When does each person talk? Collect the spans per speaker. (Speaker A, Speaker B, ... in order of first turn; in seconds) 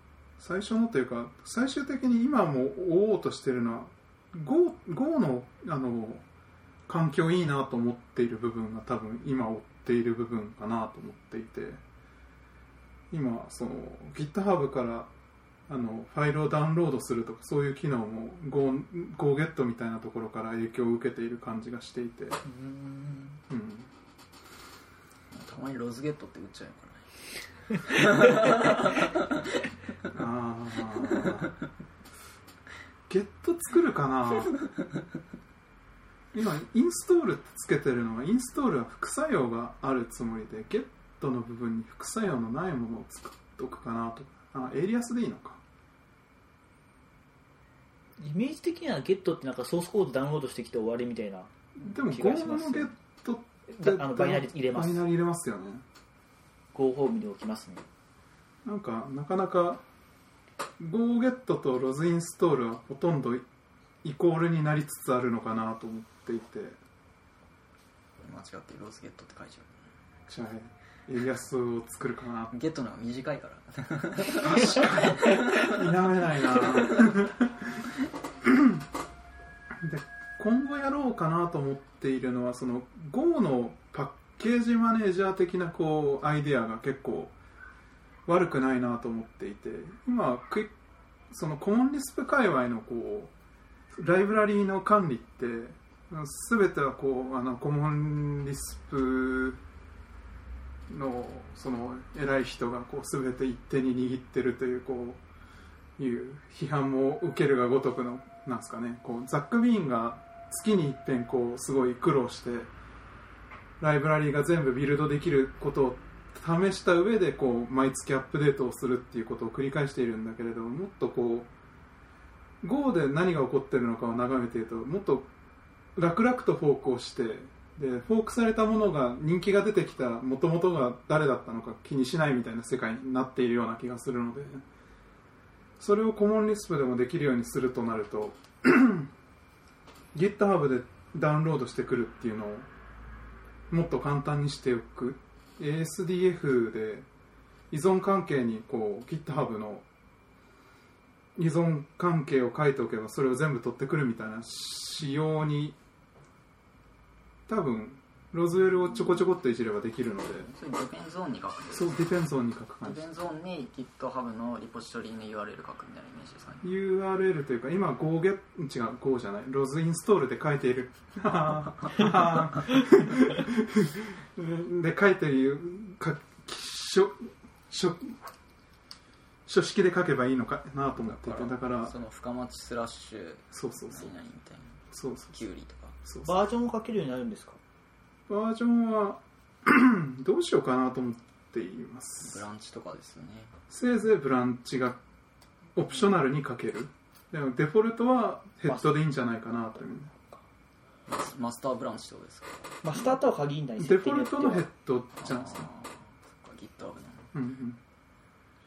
Speaker A: 0.4-6.2, 6.9-11.8, 13.1-15.1, 15.7-22.4, 23.5-23.9, 30.1-31.5, 33.1-34.6, 36.3-45.6, 51.8-55.8, 58.6-59.8, 60.8-63.4, 64.0-66.8, 70.3-72.5, 74.3-77.8, 78.4-78.8, 79.8-87.3, 88.2-90.7, 91.3-93.3, 93.9-99.6, 100.9-105.2, 106.0-112.7, 113.8-121.5, 122.6-125.3, 126.0-134.6, 135.8-139.1, 140.1-142.7, 143.7-147.1, 147.7-149.8, 151.3-155.8, 157.5-160.5, 161.7-163.0, 166.6-178.2, 179.4-181.9, 183.5-184.1, 184.9-185.3, 186.0-186.3, 188.3-192.4, 193.7-195.0, 195.7-200.1, 203.8-205.7, 207.3-207.8
Speaker B: 22.6-23.2, 48.2-52.9, 53.7-55.0, 56.7-57.9, 186.2-187.6, 202.8-204.7
Speaker C: 25.3-27.1, 27.7-29.4, 34.5-35.1, 68.2-69.7, 72.5-75.8, 76.8-77.1, 160.5-162.0, 162.8-166.6, 181.0-186.0, 192.2-193.5, 201.1-202.8, 205.2-207.3